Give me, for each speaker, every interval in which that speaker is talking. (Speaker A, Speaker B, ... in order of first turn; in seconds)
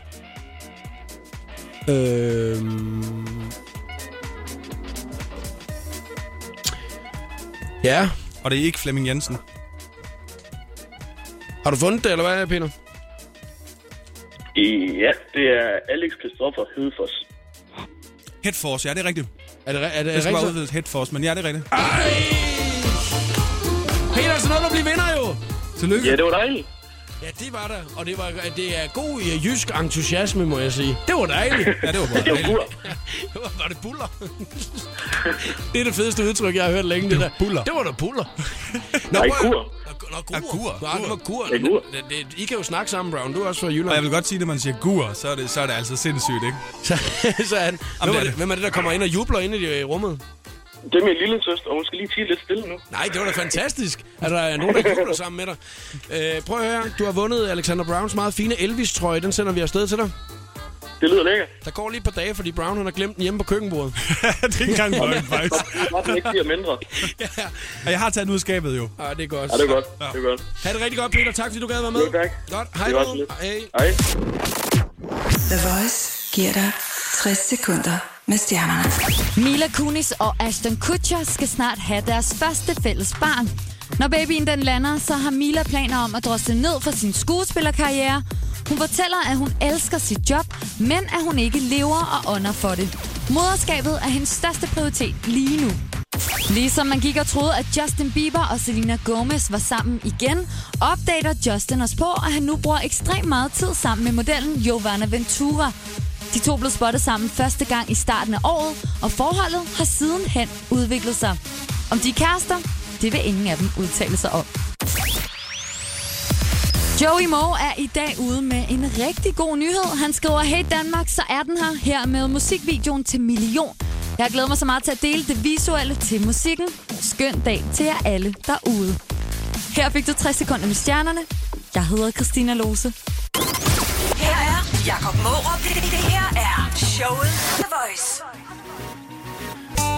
Speaker A: 1.9-3.4, 7.8-8.1, 11.6-12.7, 19.6-20.6, 21.7-23.0, 24.1-25.4, 27.2-38.3, 38.9-44.0, 46.8-50.2, 52.9-60.1, 61.6-65.6, 66.9-67.7, 69.0-69.8, 70.6-73.7
Speaker B: 8.4-9.4, 18.4-19.3, 20.1-21.7, 25.8-26.2, 31.8-32.7, 37.0-37.7, 40.3-41.2, 43.9-46.6, 48.0-48.4, 64.0-66.3, 67.8-68.9
Speaker C: 14.5-17.2, 25.9-26.6, 31.6-32.7, 39.1-39.7, 41.5-41.8, 50.9-52.8, 54.7-55.0, 61.0-61.5, 65.0-66.8, 69.5-70.4, 71.9-74.0
Speaker D: 75.5-79.0
Speaker E: 79.3-95.8, 96.5-105.7, 106.3-111.4, 111.9-114.5, 117.0-129.0, 129.7-132.9
Speaker F: 134.1-138.2